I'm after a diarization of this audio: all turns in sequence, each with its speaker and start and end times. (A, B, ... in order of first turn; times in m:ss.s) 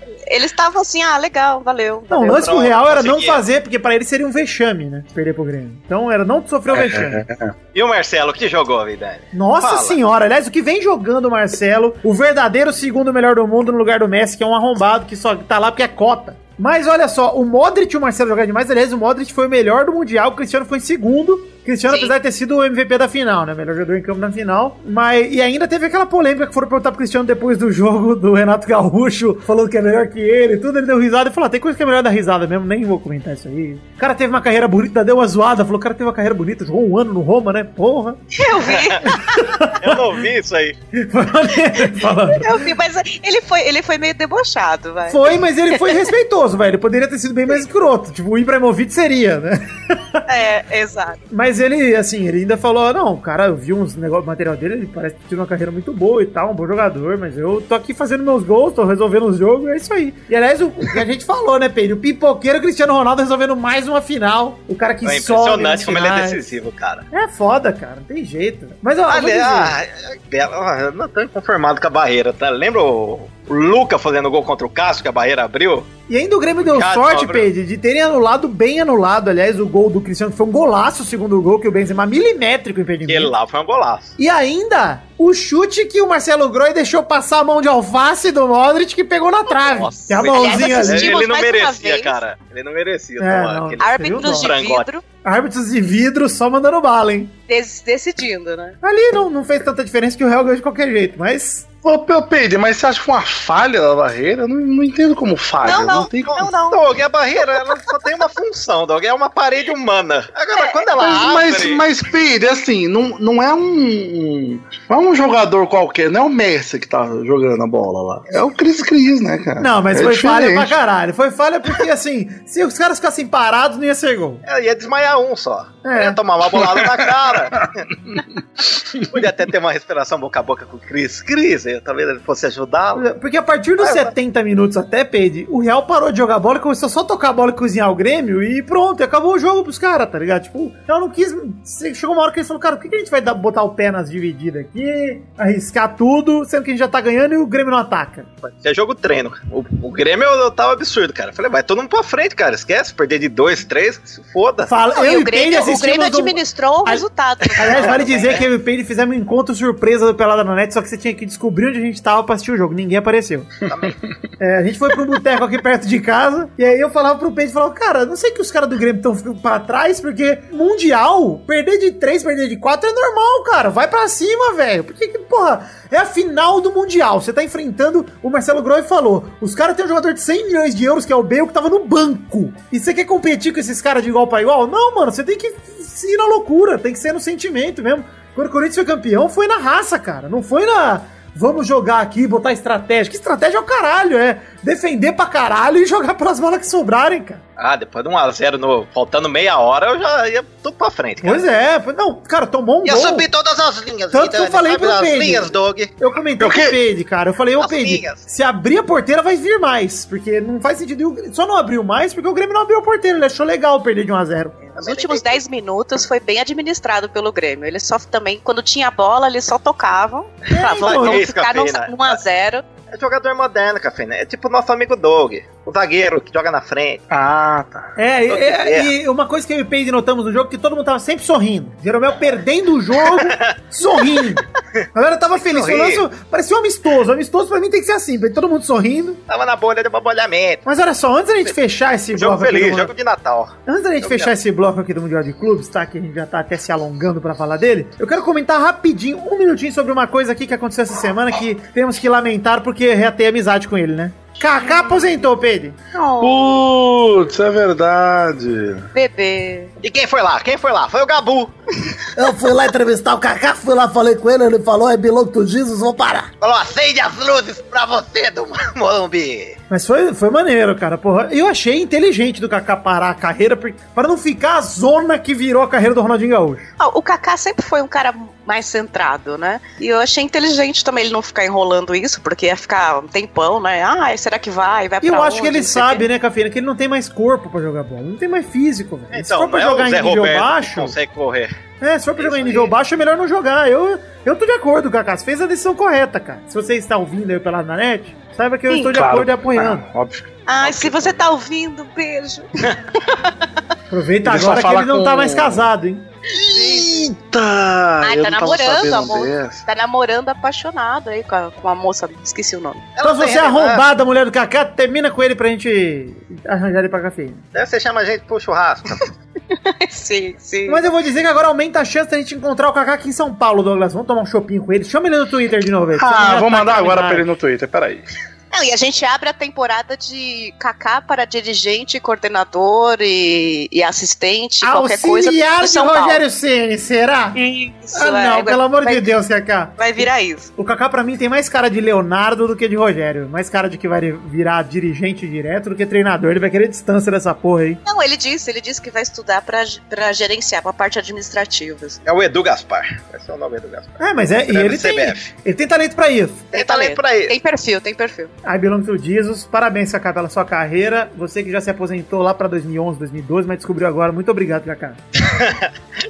0:00.3-0:02.5 A
0:02.1-0:07.2 B
0:02.2-0:03.4 C
0:06.7-0:07.5 D
0:07.7-0:10.0 C
0:09.3-0:38.2 B
0:21.9-0:22.1 A
0:38.4-0:39.1 A
0:38.7-0:39.0 C
0:39.0-0:40.0 B
0:39.8-0:40.8 C
0:40.9-0:42.6 B
0:41.8-0:46.1 A
0:45.1-0:50.2 B
0:50.3-0:51.2 A
0:51.3-1:06.4 B
1:05.0-1:07.0 C
1:07.1-1:09.8 B
1:09.1-1:15.9 C
1:16.1-1:23.3 B
1:16.6-1:17.5 C
1:23.1-1:24.2 C
1:24.2-1:31.2 B
1:29.6-1:34.9 C
1:30.2-1:32.2 A
1:33.2-1:34.5 B
1:33.8-1:35.0 A
1:35.2-1:37.3 B
1:37.5-1:38.7 A
1:38.8-1:41.6 B
1:41.8-1:46.4 D
1:45.6-1:47.9 A
1:46.3-1:51.8 C
1:50.5-1:50.8 A
1:51.0-2:00.7 D
1:59.6-2:04.4 B
2:04.4-2:07.8 C
2:05.8-2:06.2 B
2:07.6-2:08.2 D
2:09.1-2:13.0 C
2:12.9-2:28.3 B
2:13.8-2:14.1 C
2:28.4-2:34.7 C
2:34.6-2:37.0 B
2:34.9-2:38.1 A
2:37.6-2:43.5 B
2:37.7-2:38.4 C
2:43.7-2:43.9 C
2:44.4-3:17.4 B
3:17.6-3:21.4 C
3:21.2-3:23.3 B
3:22.8-3:26.6 C
3:24.1-3:34.5 B
3:27.6-3:28.2 C
3:34.8-3:35.4 C
3:34.8-3:42.6 A
3:40.5-3:41.2 B
3:40.7-3:42.2 C
3:42.9-3:47.0 C
3:47.1-3:47.9 D
3:48.0-3:59.2 B
3:48.3-3:48.9 C
3:53.0-3:53.3 C
3:55.4-3:56.0 C
3:59.3-4:00.6 C
4:00.6-4:02.9 B
4:02.2-4:04.3 C
4:03.6-4:15.7 B
4:14.6-4:14.9 A
4:15.9-4:16.4 A
4:16.2-4:18.9 D
4:18.9-4:19.7 A
4:19.8-4:21.5 C
4:22.2-4:26.3 E
4:26.4-4:29.6 C
4:29.7-4:36.7 B
4:36.8-4:46.0 A
4:45.0-4:50.9 B
4:49.1-4:51.5 C
4:51.8-4:59.8 B
4:52.2-4:52.7 C
4:58.9-5:01.2 D
5:00.5-5:02.4 A
5:03.9-5:06.0 B
5:04.2-5:05.7 D
5:06.4-5:07.1 A
5:06.4-5:09.6 D
5:08.0-5:12.8 A
5:13.0-5:13.8 C
5:13.0-5:17.4 B
5:17.5-5:19.1 C
5:19.6-5:20.8 A
5:20.7-5:27.3 B
5:26.0-5:28.1 D
5:28.5-5:36.2 A
5:34.6-5:37.4 B
5:37.4-5:39.1 A
5:37.9-5:47.8 B
5:39.8-5:40.5 A
5:47.8-5:52.0 A
5:52.0-5:55.3 C
5:54.0-5:56.5 B
5:56.5-5:57.3 C
5:56.5-5:58.3 A
5:58.4-6:05.0 B
6:05.3-6:05.6 C